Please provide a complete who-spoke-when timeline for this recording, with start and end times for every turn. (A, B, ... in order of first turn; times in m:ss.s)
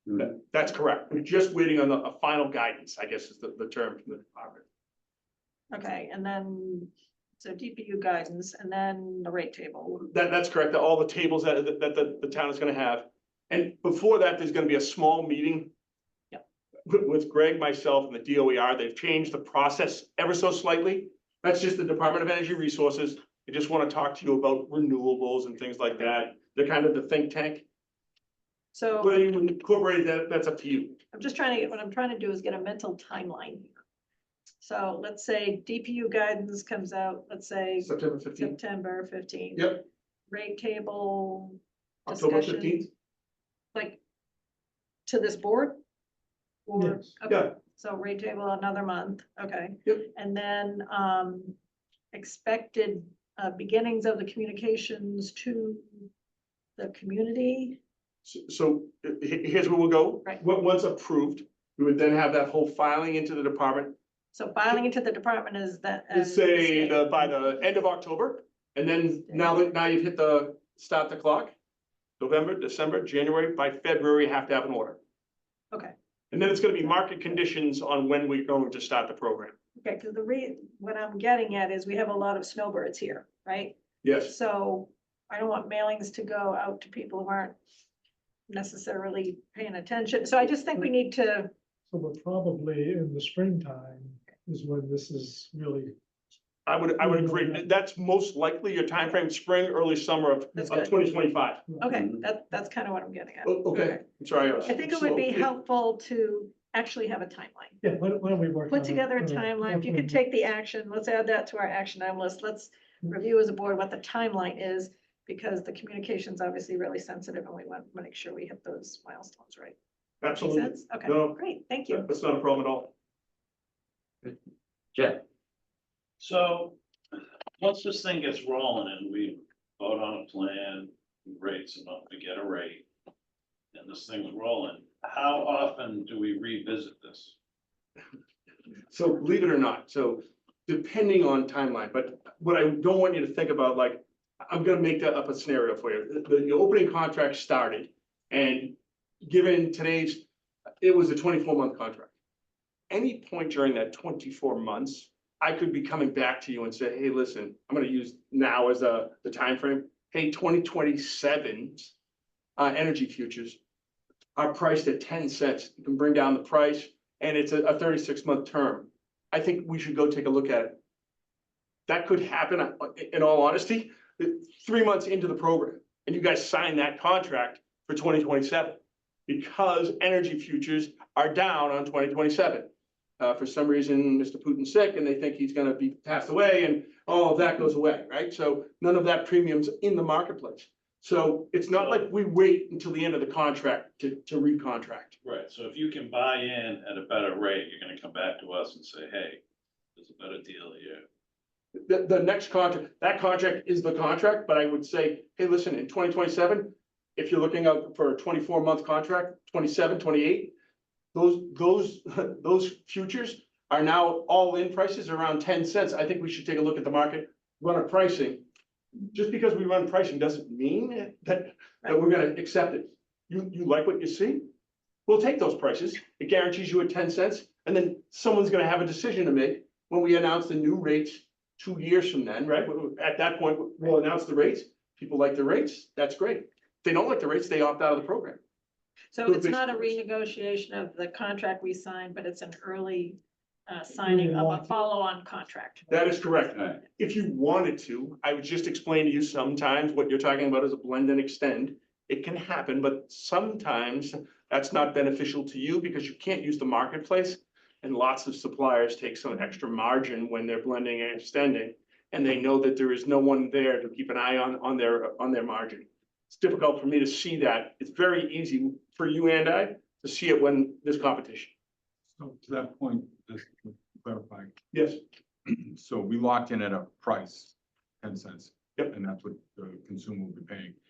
0:00.1-0:04.6 A
0:05.7-0:10.0 B
0:10.0-0:15.7 A
0:16.9-0:27.6 A
0:28.7-0:29.2 B
0:29.0-0:31.0 A
0:31.1-0:33.7 B
0:34.6-0:39.8 B
0:37.8-0:38.6 A
0:39.5-0:39.8 A
0:40.3-0:42.8 B
0:42.1-0:42.9 A
0:43.7-0:44.0 B
0:45.0-0:45.8 B
0:46.6-0:51.6 B
0:46.7-0:47.1 C
0:47.2-0:47.6 A
0:52.1-0:56.1 B
0:56.8-0:57.8 B
0:58.2-1:04.0 A
1:04.3-1:07.6 B
1:06.1-1:11.5 A
1:09.3-1:09.6 B
1:12.2-1:15.0 A
1:16.3-1:19.6 A
1:16.7-1:17.3 B
1:19.8-1:27.6 B
1:24.0-1:24.3 A
1:28.5-1:31.5 B
1:31.9-1:35.9 C
1:36.6-1:41.7 A
1:37.0-1:37.6 C
1:40.6-1:42.1 C
1:40.6-1:40.9 B
1:41.8-1:47.8 B
1:43.4-1:45.5 A
1:47.8-1:50.3 C
1:48.7-1:59.8 B
2:00.2-2:02.9 A
2:00.4-2:02.0 B
2:06.2-2:12.8 D
2:13.7-2:17.3 D
2:18.9-2:30.2 A
2:30.8-2:32.1 A
2:32.9-2:41.9 A
2:42.6-2:43.6 A
2:44.4-2:50.8 A
2:51.9-3:15.2 A
3:11.7-3:12.0 D
3:15.2-3:19.4 D
3:20.0-3:21.0 D
3:21.7-3:30.5 A
3:31.1-3:38.4 A
3:39.1-3:44.4 A
3:45.1-3:58.4 A
3:59.1-4:05.9 B
3:59.2-3:59.9 A
4:04.0-4:04.8 C
4:05.9-4:31.5 A
4:32.1-4:34.6 E
4:34.7-4:35.0 A
4:35.4-4:40.8 E